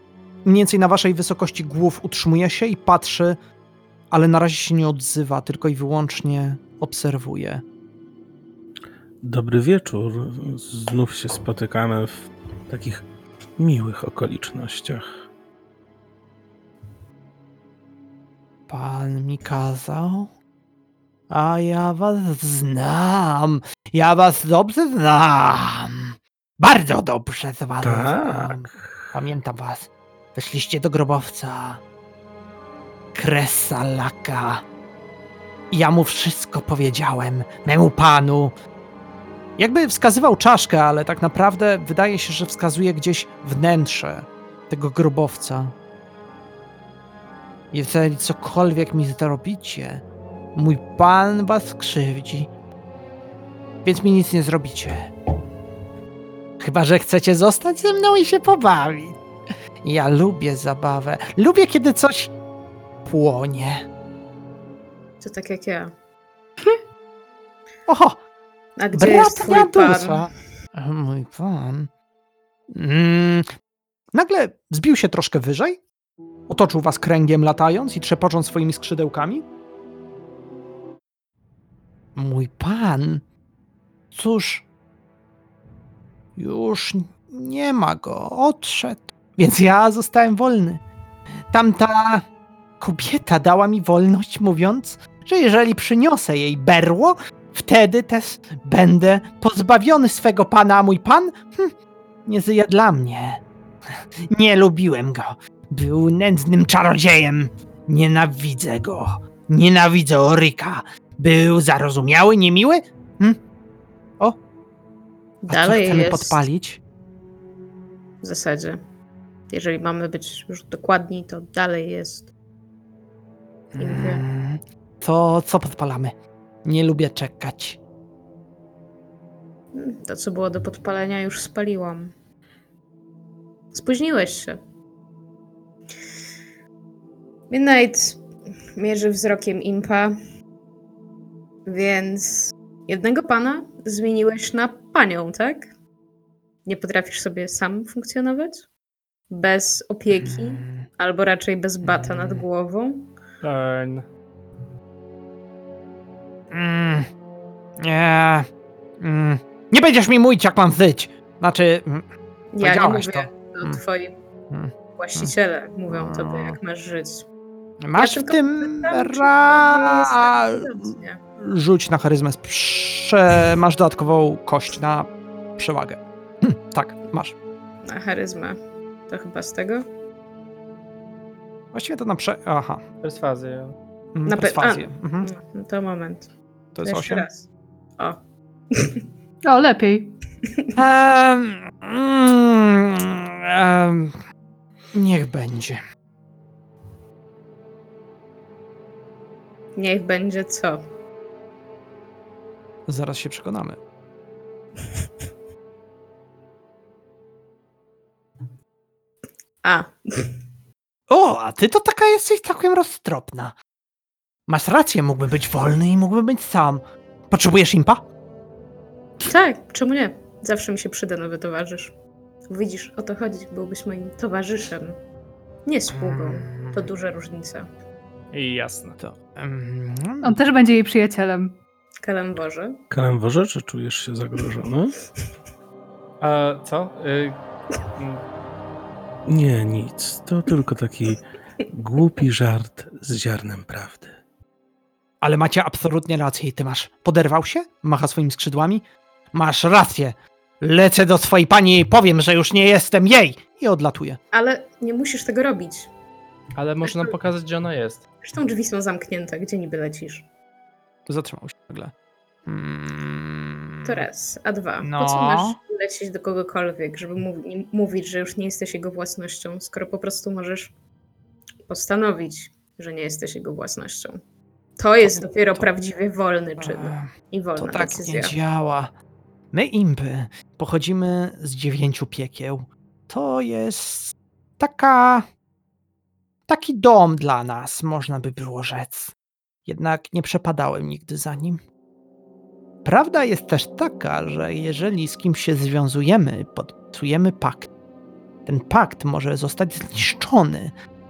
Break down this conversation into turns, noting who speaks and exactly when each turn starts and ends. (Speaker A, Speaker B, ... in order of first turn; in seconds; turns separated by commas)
Speaker A: 0.4-3.4, Speaker A: 4.1-7.6, Speaker B: 9.2-13.1, Speaker B: 13.6-15.2, Speaker A: 18.7-20.3, Speaker A: 21.3-31.8, Speaker B: 27.8-29.0, Speaker A: 33.1-34.6, Speaker A: 35.7-38.5, Speaker A: 39.6-45.7, Speaker A: 47.7-52.5, Speaker A: 53.8-55.1, Speaker A: 56.6-59.2, Speaker A: 59.8-62.3, Speaker A: 63.0-63.9, Speaker C: 65.2-65.9, Speaker A: 67.9-68.2, Speaker C: 68.8-70.3, Speaker A: 68.9-71.9, Speaker A: 72.7-73.5, Speaker A: 74.1-75.8, Speaker A: 76.5-79.5, Speaker A: 82.1-83.2, Speaker A: 84.1-84.7, Speaker A: 86.4-90.8, Speaker A: 91.5-92.2, Speaker A: 92.8-101.7, Speaker A: 102.2-103.4, Speaker A: 103.9-113.4, Speaker C: 115.4-116.4, Speaker A: 115.5-116.8, Speaker C: 118.2-118.8, Speaker C: 119.5-122.3, Speaker A: 123.7-127.8, Speaker C: 123.8-124.2, Speaker C: 129.7-132.1, Speaker C: 133.7-134.6, Speaker C: 137.5-138.2, Speaker C: 138.8-140.2, Speaker C: 141.7-145.7, Speaker C: 146.6-148.7, Speaker C: 149.3-153.1, Speaker A: 150.2-150.9, Speaker A: 151.8-152.4, Speaker D: 153.4-154.1, Speaker A: 156.5-157.1, Speaker A: 157.8-162.1, Speaker C: 162.5-164.1, Speaker A: 162.6-163.8, Speaker A: 164.5-165.3, Speaker C: 164.9-167.3, Speaker A: 165.9-166.6, Speaker A: 167.8-177.4, Speaker C: 167.9-171.2, Speaker C: 177.8-179.8, Speaker A: 181.7-182.8, Speaker D: 183.0-183.8, Speaker A: 184.1-185.3, Speaker C: 184.2-186.3, Speaker A: 186.7-187.3, Speaker C: 186.8-187.5, Speaker C: 188.7-189.0, Speaker E: 189.4-190.2, Speaker A: 190.7-194.2, Speaker A: 194.9-195.8, Speaker C: 199.8-200.8, Speaker A: 202.9-203.8, Speaker C: 209.6-210.3, Speaker A: 211.1-213.5, Speaker A: 214.5-218.0, Speaker C: 219.2-221.9, Speaker C: 222.5-225.0, Speaker C: 225.7-227.7, Speaker A: 225.9-226.8, Speaker D: 228.3-229.0, Speaker A: 229.0-230.4, Speaker E: 230.2-231.6, Speaker C: 232.0-232.8, Speaker B: 232.9-235.0, Speaker D: 236.2-237.4, Speaker D: 237.9-238.2, Speaker B: 239.2-244.2, Speaker A: 245.2-254.2, Speaker C: 254.3-255.9, Speaker D: 256.6-258.0, Speaker C: 256.8-257.1, Speaker C: 258.2-260.3, Speaker A: 261.1-261.9, Speaker A: 262.4-264.0, Speaker C: 263.8-270.7, Speaker A: 264.8-265.6, Speaker C: 271.7-274.2, Speaker C: 274.8-278.3, Speaker A: 275.0-275.7, Speaker A: 276.6-278.9, Speaker A: 279.5-285.3, Speaker A: 286.5-291.6, Speaker A: 292.8-297.7, Speaker A: 298.4-300.7